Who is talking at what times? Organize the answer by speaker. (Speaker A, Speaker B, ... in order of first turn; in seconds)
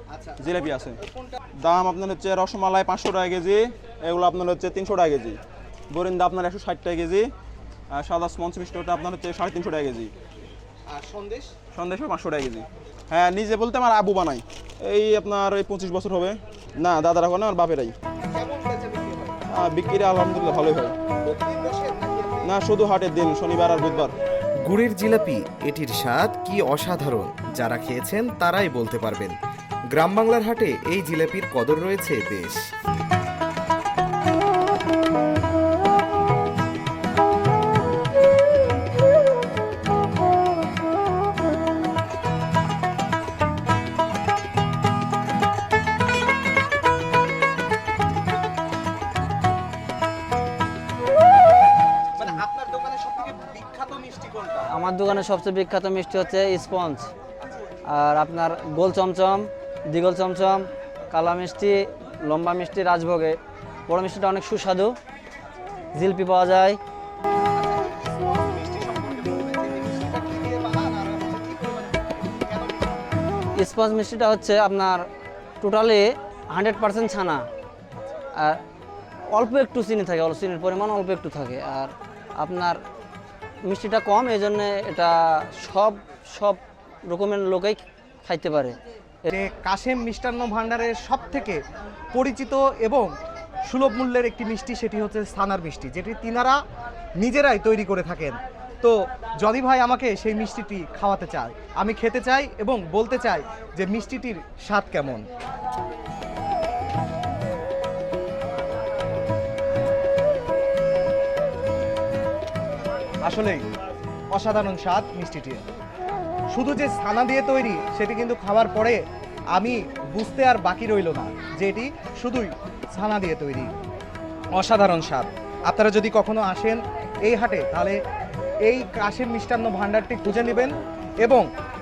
Speaker A: 0.1-1.4, 10.9-11.6, 18.3-19.4, 21.2-22.5, 52.2-54.7, 67.5-73.0, 89.3-91.6, 92.1-93.1, 93.7-96.6, 97.2-105.3, 113.2-113.6, 114.3-115.6, 116.5-119.0, 119.5-123.7, 124.5-128.0, 128.6-131.5
Speaker B: 0.4-1.0, 1.6-5.4, 5.9-7.3, 7.9-10.1, 11.7-17.9, 19.5-20.9, 22.4-24.1
Speaker C: 24.6-29.4, 29.9-32.6
Speaker D: 54.7-57.1, 57.9-65.0, 65.9-66.8, 73.6-75.1, 75.6-77.5, 79.3-82.8, 83.6-89.3